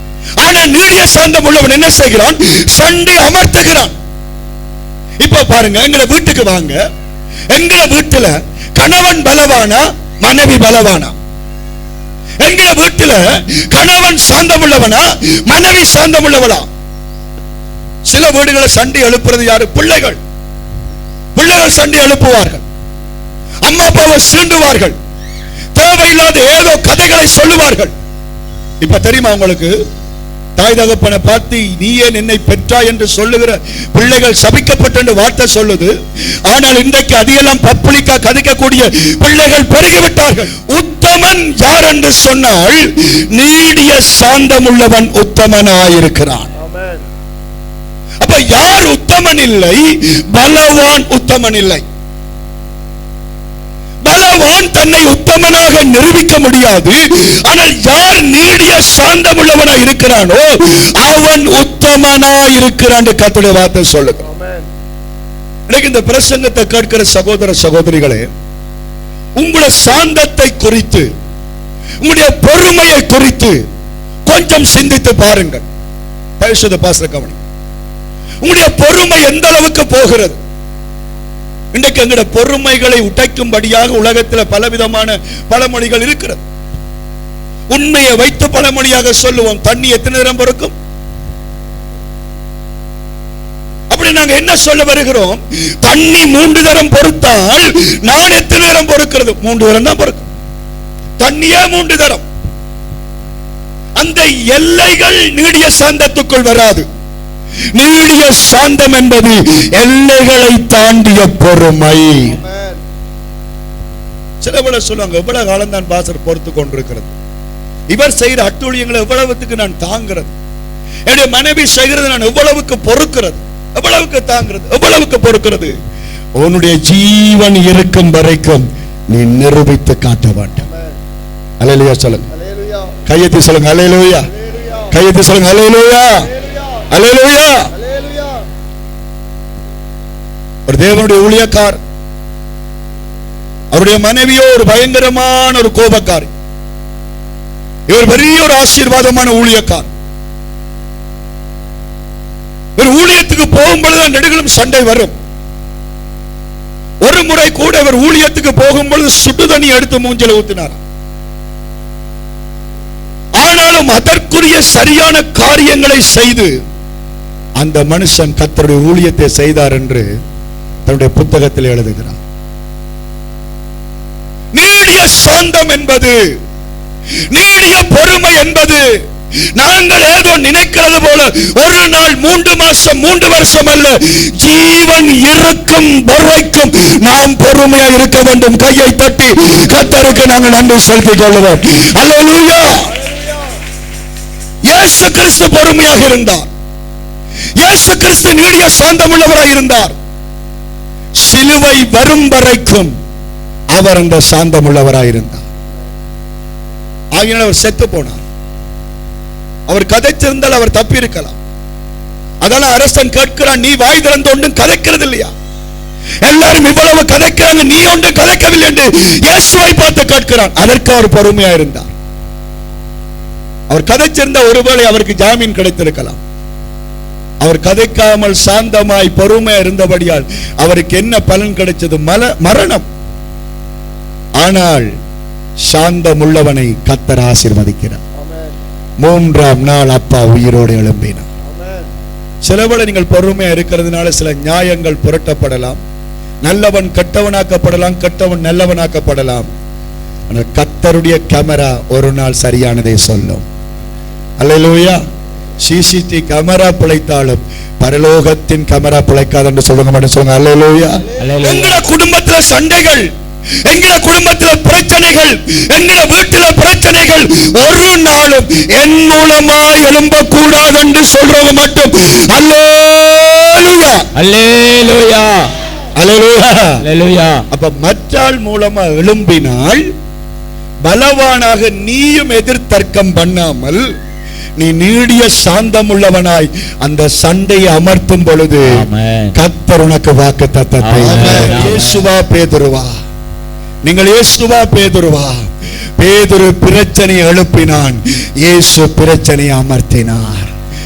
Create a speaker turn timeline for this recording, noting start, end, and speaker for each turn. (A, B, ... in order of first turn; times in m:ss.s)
0:00.4-0:03.9 A
0:05.2-0:06.8 A
0:07.5-0:11.1 A
0:12.4-0:16.7 A
0:18.1-0:20.2 A
0:21.4-0:22.6 A
0:23.6-0:25.0 A
0:25.7-0:27.9 A
0:28.8-0:29.7 A
0:30.6-0:35.9 A
0:36.5-0:46.5 A
0:46.6-0:47.0 B
0:48.2-0:51.8 A
0:54.0-1:04.2 A
1:04.3-1:04.7 B
1:05.7-1:08.3 A
1:09.4-1:11.1 A
1:12.0-1:13.6 A
1:14.2-1:15.6 A
1:16.4-1:17.4 A
1:18.4-1:20.4 A
1:21.7-1:26.4 A
1:27.7-1:30.7 A
1:33.9-1:40.2 A
1:41.2-1:42.2 A
1:44.0-1:46.8 A
1:47.7-1:52.4 A
1:52.4-1:52.8 B
1:54.4-1:57.1 A
1:57.9-2:00.3 A
2:01.1-2:05.7 A
2:06.4-2:10.6 A
2:11.6-2:12.3 A
2:12.4-2:13.0 B
2:13.0-2:14.3 A
2:14.5-2:14.8 B
2:14.9-2:16.3 A
2:16.9-2:17.7 A
2:17.7-2:18.4 B
2:20.7-2:21.8 A
2:23.7-2:26.3 A
2:27.9-2:29.9 A
2:32.8-2:35.1 A
2:37.0-2:40.8 A
2:43.4-2:46.5 A
2:47.6-2:50.0 A
2:50.8-2:52.2 A
2:54.5-2:56.2 A
2:57.3-2:58.8 A
2:59.6-3:12.8 A
3:14.7-3:16.5 A
3:17.6-3:19.9 A
3:21.2-3:22.9 A
3:23.7-3:25.4 A
3:27.1-3:28.2 A
3:29.7-3:31.4 A
3:32.4-3:35.3 A
3:36.2-3:41.9 A
3:43.7-3:46.2 A
3:47.4-3:52.9 A
3:54.4-3:54.9 A
3:55.7-3:58.0 A
3:58.2-3:58.5 B
3:59.0-4:01.3 A
4:01.5-4:01.9 B
4:02.4-4:05.8 A
4:06.4-4:09.5 A
4:10.3-4:13.4 A
4:14.4-4:15.0 A
4:15.6-4:23.1 A
4:21.2-4:21.8 C
4:23.6-4:34.1 A
4:34.1-4:35.5 C
4:36.0-4:36.8 A
4:36.8-4:37.4 C
4:37.5-4:39.8 A
4:40.8-4:43.8 A
4:44.6-4:48.8 A
4:48.7-4:49.4 C
4:49.3-4:52.9 A
4:50.8-4:52.0 C
4:53.8-4:55.4 A
4:56.0-5:00.5 A